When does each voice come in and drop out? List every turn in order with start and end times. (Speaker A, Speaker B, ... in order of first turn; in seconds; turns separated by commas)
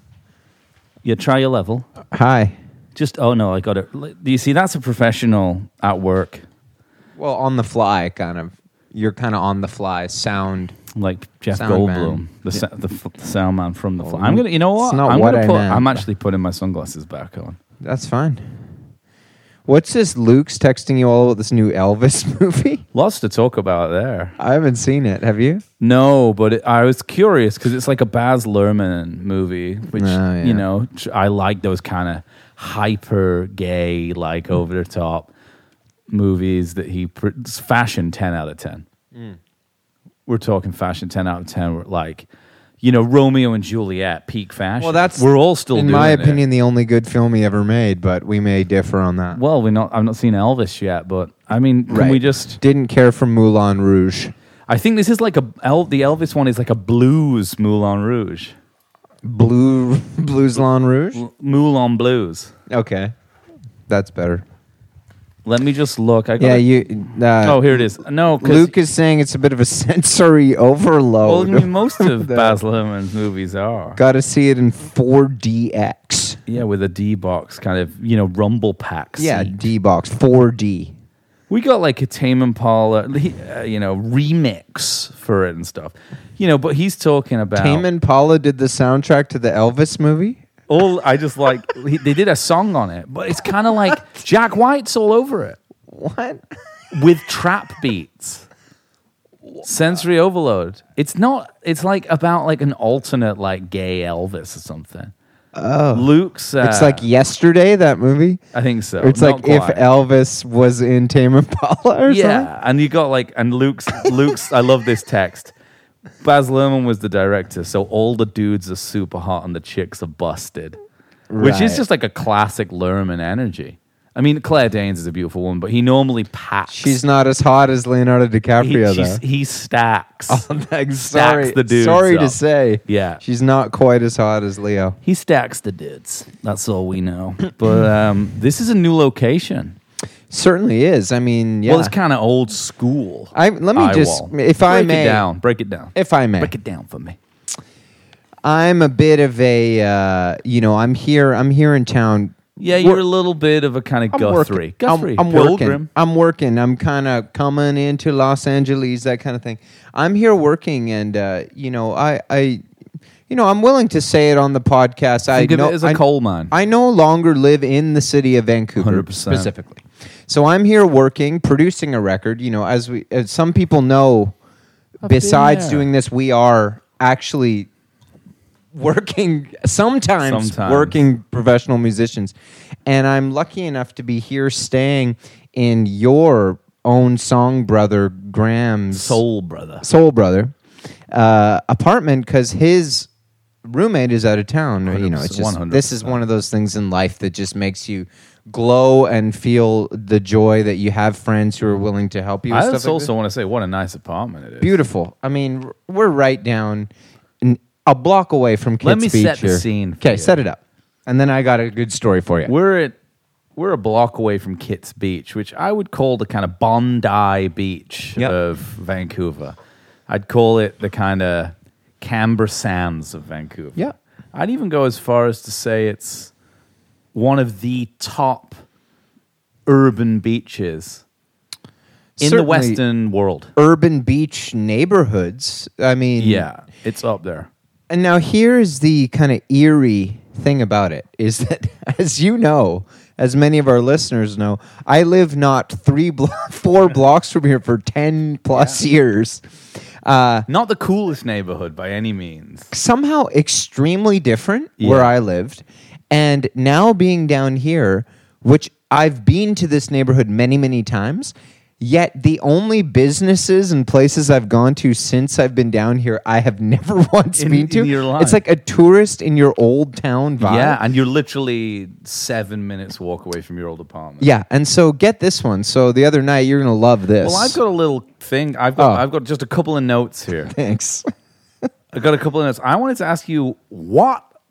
Speaker A: 1.0-1.9, Speaker B: 2.1-2.5, Speaker A: 2.9-6.4, Speaker B: 7.2-10.7, Speaker A: 10.9-17.6, Speaker B: 11.5-12.2, Speaker B: 14.0-16.0, Speaker B: 17.8-18.4, Speaker B: 19.6-22.8, Speaker A: 22.9-24.3, Speaker B: 24.4-25.6, Speaker A: 25.8-35.3, Speaker B: 29.9-30.6, Speaker A: 36.1-38.8, Speaker A: 40.2-42.3, Speaker A: 42.8-46.4, Speaker B: 44.8-49.4, Speaker A: 49.3-52.6, Speaker B: 51.9-54.3, Speaker A: 54.7-58.5, Speaker B: 59.2-61.2, Speaker A: 61.1-62.5, Speaker B: 62.7-63.1, Speaker B: 63.9-64.4, Speaker A: 65.4-66.7, Speaker B: 66.4-72.6, Speaker A: 67.4-68.7, Speaker A: 71.2-74.0, Speaker B: 74.0-76.4, Speaker A: 76.5-79.7, Speaker B: 79.2-80.9, Speaker A: 81.5-87.8, Speaker B: 87.5-90.4, Speaker A: 90.7-95.6, Speaker B: 95.9-96.4, Speaker A: 96.9-98.5, Speaker A: 99.6-105.1, Speaker B: 105.5-106.1, Speaker A: 105.9-107.0, Speaker B: 106.6-108.4, Speaker A: 108.5-109.8, Speaker B: 109.0-112.5, Speaker A: 112.1-115.5, Speaker A: 116.2-120.8, Speaker B: 121.3-121.8, Speaker A: 121.4-127.0, Speaker B: 126.7-129.2, Speaker A: 128.6-130.4, Speaker B: 130.3-135.0, Speaker A: 131.1-133.2, Speaker A: 135.0-139.8, Speaker B: 140.3-141.9, Speaker A: 141.6-147.2, Speaker B: 143.3-145.2, Speaker B: 145.9-146.5, Speaker B: 148.4-153.0, Speaker A: 152.6-155.9, Speaker B: 154.1-162.6, Speaker B: 163.3-174.3, Speaker A: 165.3-166.5, Speaker A: 168.8-169.5, Speaker A: 175.0-175.9, Speaker B: 175.0-177.7, Speaker B: 178.7-182.3, Speaker A: 180.2-181.0, Speaker B: 182.8-189.2, Speaker A: 188.9-189.8, Speaker B: 189.8-190.5, Speaker B: 191.1-193.1, Speaker B: 193.6-203.1, Speaker A: 194.9-196.2, Speaker A: 202.5-204.7, Speaker B: 204.6-206.9, Speaker B: 207.4-212.5, Speaker A: 208.8-210.4, Speaker A: 212.4-212.9, Speaker A: 213.6-219.6, Speaker A: 220.1-223.8, Speaker A: 224.3-226.3, Speaker A: 227.1-228.6, Speaker A: 229.7-231.0, Speaker B: 232.2-232.8, Speaker A: 232.2-233.5, Speaker B: 233.6-236.4, Speaker A: 236.2-237.5, Speaker B: 237.9-249.4, Speaker A: 248.5-248.8, Speaker B: 250.0-250.5, Speaker A: 250.5-252.7, Speaker B: 252.7-270.8, Speaker A: 254.8-255.1, Speaker A: 267.4-268.4, Speaker A: 270.4-274.3, Speaker B: 274.2-277.6, Speaker A: 277.2-280.5, Speaker B: 278.8-279.0, Speaker B: 280.5-281.1, Speaker A: 281.9-284.2